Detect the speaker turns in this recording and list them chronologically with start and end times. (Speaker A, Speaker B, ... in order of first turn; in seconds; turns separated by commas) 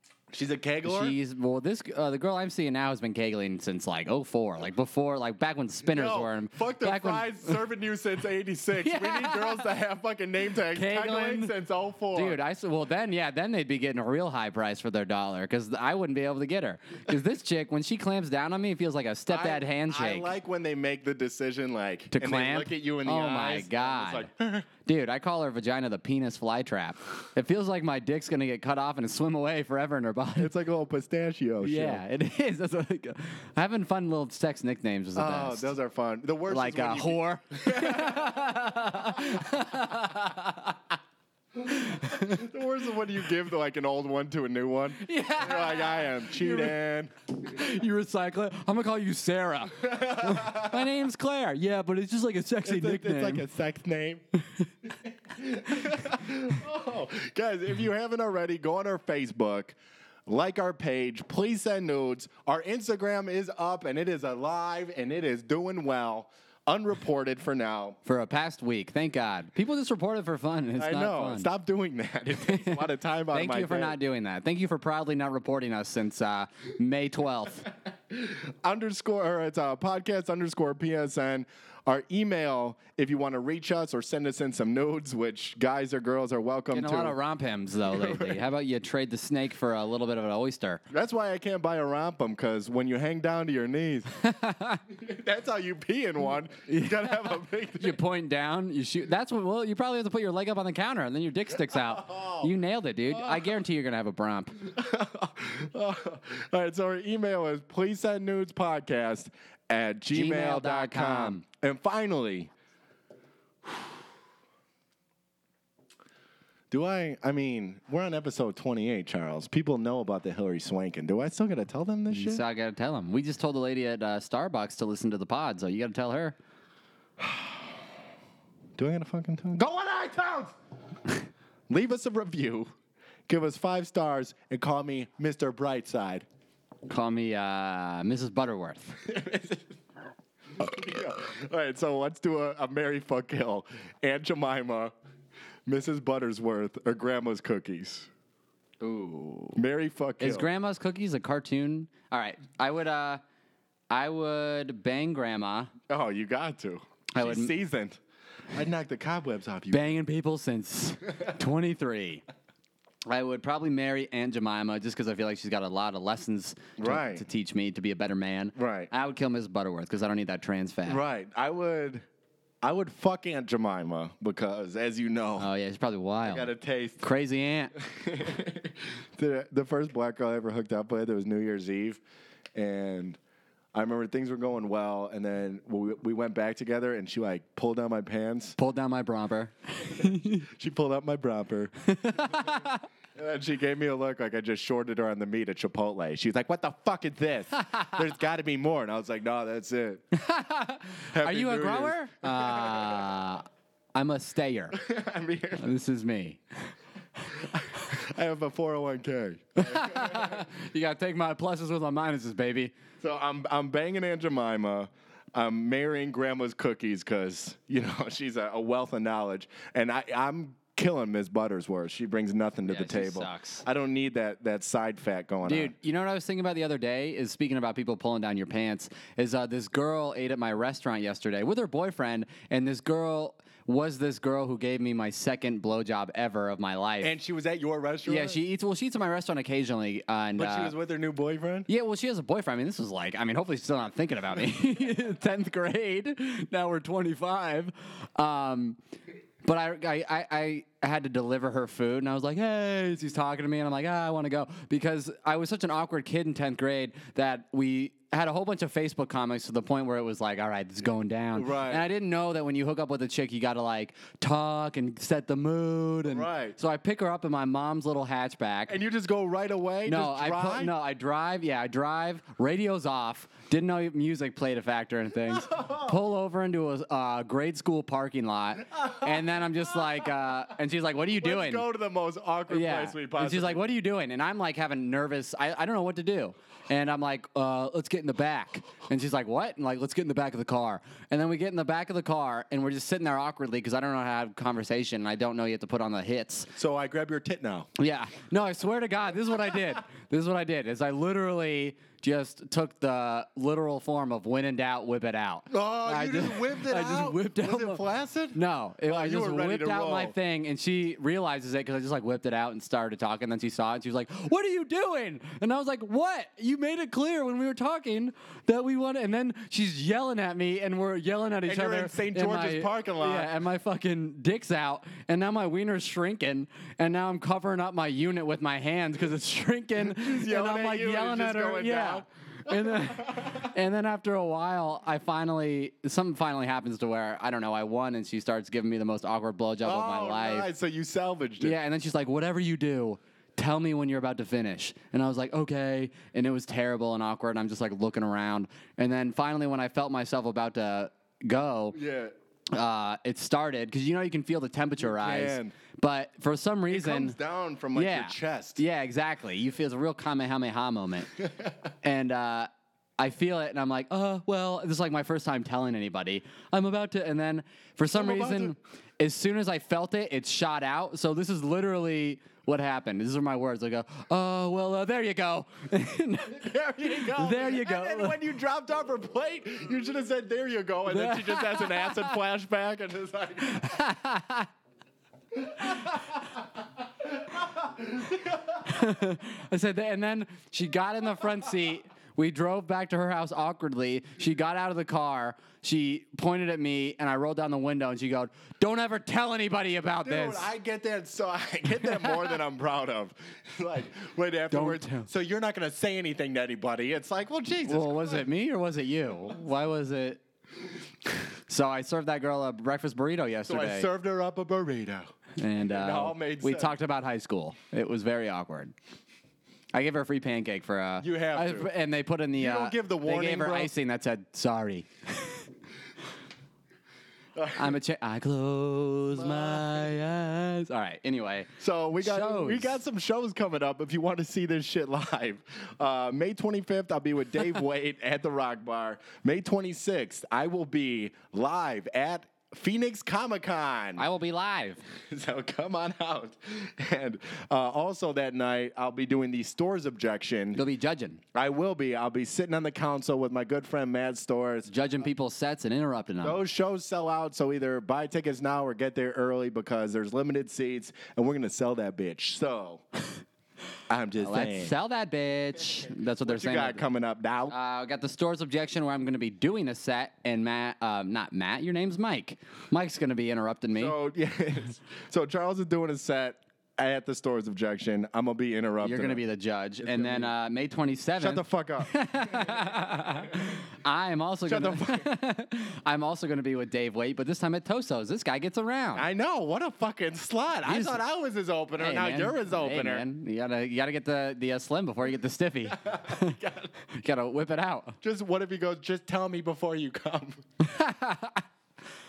Speaker A: 0.3-1.1, Speaker B: 0.8-7.6, Speaker A: 5.9-12.4, Speaker B: 8.8-9.7, Speaker B: 10.7-11.5, Speaker B: 12.1-20.3, Speaker A: 19.3-24.7, Speaker B: 22.1-24.3, Speaker B: 24.8-30.5, Speaker A: 30.4-32.0, Speaker B: 31.6-35.7, Speaker A: 35.1-39.4, Speaker B: 36.5-40.8, Speaker B: 41.6-42.5, Speaker A: 41.7-47.1, Speaker B: 45.0-46.8, Speaker B: 47.4-53.5, Speaker A: 49.8-50.9, Speaker A: 52.6-54.2, Speaker A: 55.3-59.8, Speaker A: 60.3-68.0, Speaker B: 68.0-71.5, Speaker A: 70.8-74.0, Speaker B: 72.3-77.7, Speaker A: 78.1-87.2, Speaker B: 86.7-90.8, Speaker A: 87.8-88.4, Speaker A: 90.9-94.1, Speaker B: 94.2-94.8, Speaker A: 94.9-98.0, Speaker B: 96.7-104.7, Speaker A: 101.7-102.5, Speaker A: 103.1-103.6, Speaker A: 104.6-112.5, Speaker B: 110.1-111.4, Speaker A: 116.7-122.4, Speaker B: 122.1-126.3, Speaker A: 127.2-127.7, Speaker A: 128.8-130.5, Speaker A: 131.7-132.7, Speaker A: 133.3-136.2, Speaker B: 136.9-139.0, Speaker A: 139.0-139.7, Speaker A: 140.6-144.9, Speaker A: 145.7-148.1, Speaker B: 148.8-149.6, Speaker A: 149.5-150.5, Speaker B: 150.2-153.2, Speaker B: 153.9-155.7, Speaker A: 155.9-158.0, Speaker B: 157.1-157.5, Speaker A: 158.5-160.0, Speaker B: 159.7-162.2, Speaker B: 163.1-171.0, Speaker A: 166.8-167.2, Speaker A: 168.6-168.9, Speaker A: 170.9-172.1, Speaker A: 172.6-175.5, Speaker B: 175.4-176.5, Speaker A: 176.2-177.1, Speaker B: 177.0-177.7, Speaker A: 177.8-182.0, Speaker A: 182.5-183.2, Speaker A: 183.7-188.6, Speaker B: 188.6-190.5, Speaker A: 190.0-192.5, Speaker B: 191.8-192.8, Speaker A: 193.1-200.0, Speaker B: 200.1-204.8, Speaker A: 201.1-203.1, Speaker A: 204.7-205.7, Speaker B: 205.6-206.4, Speaker A: 207.3-210.4, Speaker B: 209.6-212.7, Speaker A: 213.0-225.7, Speaker B: 222.7-223.6, Speaker B: 225.4-237.1, Speaker A: 237.0-238.4, Speaker B: 238.1-240.7, Speaker A: 240.3-241.7, Speaker B: 241.7-248.8, Speaker B: 249.4-268.8, Speaker A: 261.3-261.8, Speaker A: 266.1-266.6, Speaker A: 268.7-270.7, Speaker B: 269.9-281.6, Speaker A: 275.3-275.9, Speaker A: 278.8-279.2, Speaker A: 281.1-283.6, Speaker B: 282.5-296.5, Speaker A: 296.6-297.7, Speaker B: 297.8-307.8, Speaker A: 305.5-310.1, Speaker B: 308.3-340.5, Speaker A: 321.4-323.3, Speaker A: 329.8-333.5, Speaker A: 339.6-341.6, Speaker B: 341.4-351.8, Speaker A: 351.7-352.1, Speaker B: 352.5-357.2, Speaker A: 354.8-355.5, Speaker A: 356.7-358.6, Speaker B: 357.7-361.1, Speaker B: 361.8-378.2, Speaker A: 367.9-368.5, Speaker A: 376.4-383.8, Speaker B: 380.9-382.1, Speaker B: 383.4-384.5, Speaker A: 385.4-386.2, Speaker A: 387.2-388.4, Speaker B: 388.6-400.5, Speaker A: 400.0-408.2, Speaker B: 401.8-402.3, Speaker B: 404.5-405.1, Speaker B: 407.6-410.2, Speaker B: 411.5-413.9, Speaker A: 413.5-415.1, Speaker B: 415.4-418.7, Speaker A: 415.7-416.8, Speaker B: 419.7-425.4, Speaker A: 421.0-421.7, Speaker A: 422.4-423.7, Speaker A: 427.4-427.8, Speaker B: 427.5-432.7, Speaker A: 429.1-429.9, Speaker A: 431.6-444.0, Speaker B: 444.0-444.8, Speaker A: 445.1-450.6, Speaker B: 450.5-451.2, Speaker A: 451.3-454.7, Speaker B: 454.7-456.4, Speaker A: 456.2-462.8, Speaker A: 463.9-464.7, Speaker B: 464.2-466.8, Speaker A: 466.2-467.5, Speaker B: 467.5-473.9, Speaker A: 473.7-479.2, Speaker B: 478.8-489.1, Speaker A: 479.8-480.3, Speaker A: 481.2-483.5, Speaker A: 484.5-485.1, Speaker A: 488.9-493.0, Speaker B: 490.6-491.0, Speaker B: 491.8-498.0, Speaker A: 495.7-496.7, Speaker A: 498.0-500.4, Speaker B: 500.6-501.4